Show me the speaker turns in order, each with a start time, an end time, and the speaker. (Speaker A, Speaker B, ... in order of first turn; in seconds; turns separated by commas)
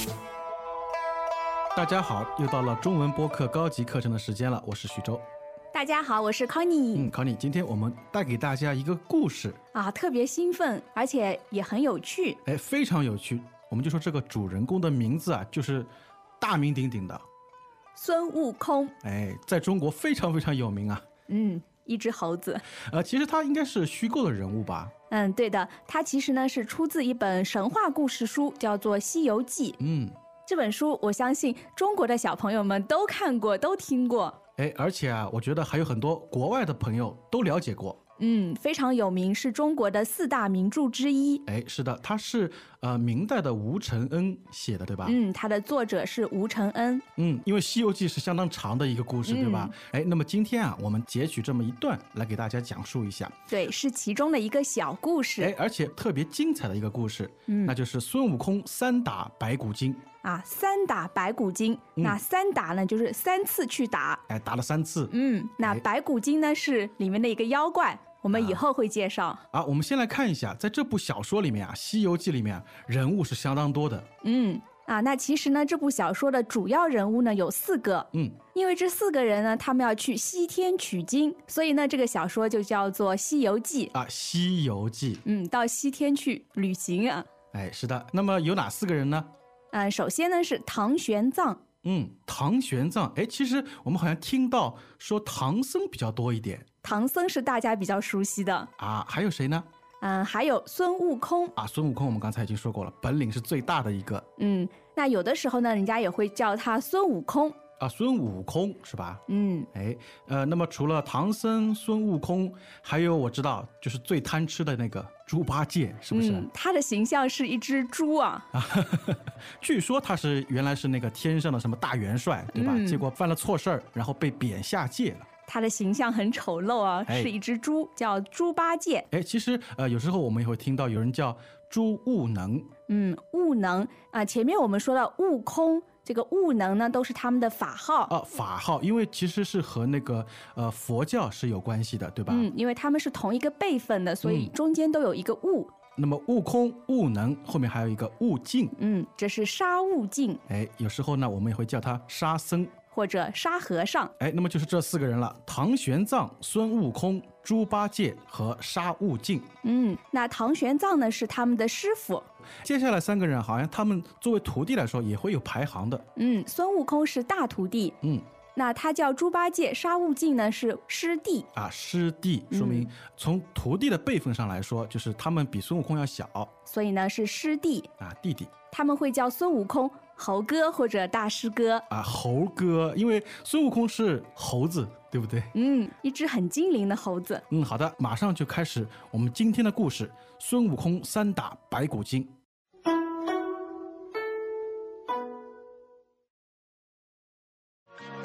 Speaker A: 1.8-5.3, Speaker B: 5.7-7.1, Speaker A: 7.0-9.6, Speaker B: 9.7-12.4, Speaker A: 12.4-17.2, Speaker B: 17.9-18.9, Speaker A: 19.0-21.1, Speaker B: 21.3-22.6, Speaker A: 22.8-24.9, Speaker B: 25.1-29.8, Speaker A: 29.8-30.2, Speaker B: 30.5-34.4, Speaker A: 34.6-38.0, Speaker B: 38.2-41.5, Speaker A: 41.5-45.2, Speaker B: 45.0-47.0, Speaker A: 47.2-53.4, Speaker B: 49.2-49.8, Speaker B: 53.5-55.5, Speaker A: 55.4-60.0, Speaker B: 57.5-57.8, Speaker B: 60.2-64.2, Speaker A: 64.3-65.8, Speaker B: 65.1-69.4, Speaker A: 68.3-68.6, Speaker A: 69.5-74.1, Speaker B: 74.2-83.9, Speaker A: 78.1-78.4, Speaker A: 83.9-85.2, Speaker B: 85.2-87.3, Speaker A: 87.5-89.3, Speaker B: 89.7-91.6, Speaker A: 91.8-96.7, Speaker B: 96.8-98.7, Speaker A: 98.8-99.7, Speaker B: 100.0-101.5, Speaker A: 101.6-104.3, Speaker B: 104.4-107.6, Speaker A: 107.8-116.5, Speaker B: 109.3-109.7, Speaker B: 116.1-118.5, Speaker A: 118.5-125.3, Speaker B: 122.5-123.0, Speaker B: 125.5-129.1, Speaker A: 127.1-127.3, Speaker A: 129.1-132.7, Speaker B: 132.9-138.1, Speaker A: 138.1-142.5, Speaker B: 142.3-145.7, Speaker A: 144.2-144.5, Speaker A: 146.0-148.8, Speaker B: 148.8-150.4, Speaker A: 150.5-152.8, Speaker B: 152.9-154.1, Speaker A: 154.2-159.5, Speaker B: 159.6-162.3, Speaker A: 162.6-166.1, Speaker B: 166.2-168.0, Speaker A: 168.0-168.3, Speaker B: 168.6-171.5, Speaker A: 171.6-176.5, Speaker B: 172.5-172.9, Speaker B: 176.7-177.9, Speaker A: 178.0-178.5, Speaker B: 178.7-181.9, Speaker A: 181.9-185.5, Speaker B: 185.6-187.4, Speaker A: 187.5-192.4